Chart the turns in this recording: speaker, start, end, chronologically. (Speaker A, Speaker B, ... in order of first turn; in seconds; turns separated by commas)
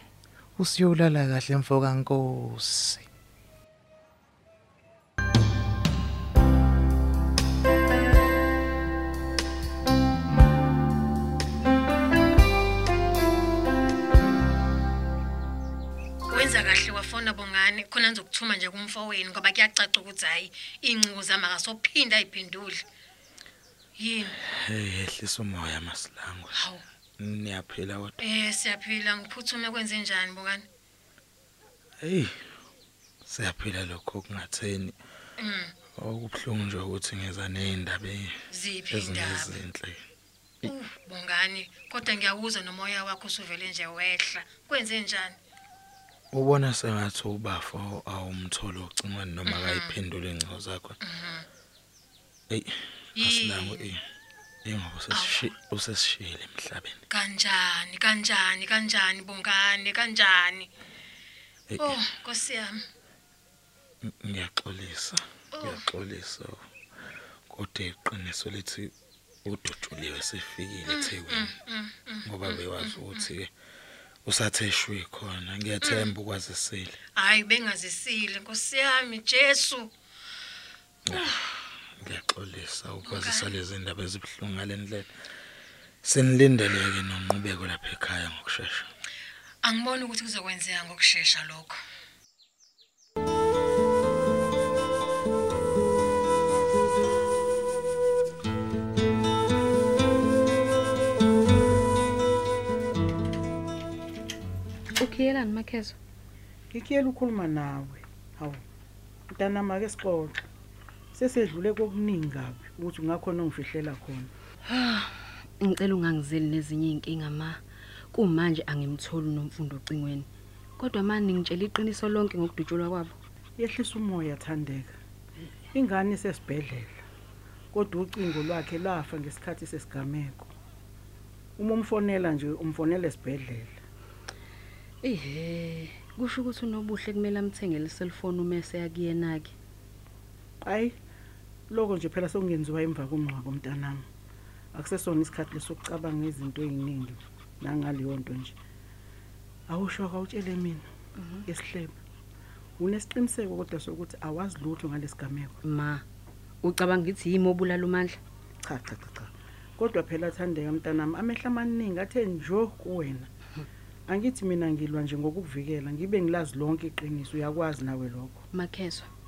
Speaker A: 0.6-3.1, Speaker B: 16.3-22.8, Speaker B: 24.0-24.3, Speaker C: 24.8-26.5, Speaker A: 25.0-26.4, Speaker C: 27.2-28.1, Speaker B: 28.2-30.6, Speaker C: 33.3-34.9, Speaker B: 35.4-35.7, Speaker C: 36.0-38.1, Speaker B: 38.6-39.4, Speaker C: 38.9-39.9, Speaker B: 40.7-45.3, Speaker C: 46.3-51.0, Speaker B: 51.1-51.5, Speaker B: 53.2-53.7, Speaker C: 53.2-53.9, Speaker C: 54.8-56.9, Speaker B: 57.2-60.7, Speaker B: 61.8-62.8, Speaker C: 64.3-66.5, Speaker C: 67.5-68.9, Speaker C: 69.5-71.5, Speaker B: 71.3-72.3, Speaker C: 72.3-73.3, Speaker C: 74.3-76.9, Speaker B: 77.2-79.9, Speaker C: 82.0-85.0, Speaker C: 86.0-88.9, Speaker B: 89.7-91.7, Speaker D: 105.0-106.0, Speaker E: 106.7-108.6, Speaker E: 109.3-110.3, Speaker E: 111.1-114.3, Speaker D: 114.7-117.6, Speaker D: 118.1-120.3, Speaker D: 120.8-123.2, Speaker E: 123.6-124.9, Speaker E: 125.8-126.9, Speaker E: 127.7-130.5, Speaker E: 131.6-133.7, Speaker D: 135.0-139.5, Speaker E: 140.6-140.9, Speaker E: 141.7-144.0, Speaker E: 144.7-148.5, Speaker E: 149.7-150.8, Speaker D: 151.2-151.4, Speaker E: 151.6-151.9, Speaker E: 152.8-155.5, Speaker D: 155.6-156.0, Speaker D: 156.6-158.2, Speaker E: 158.7-163.3, Speaker E: 164.1-168.4, Speaker D: 168.5-169.1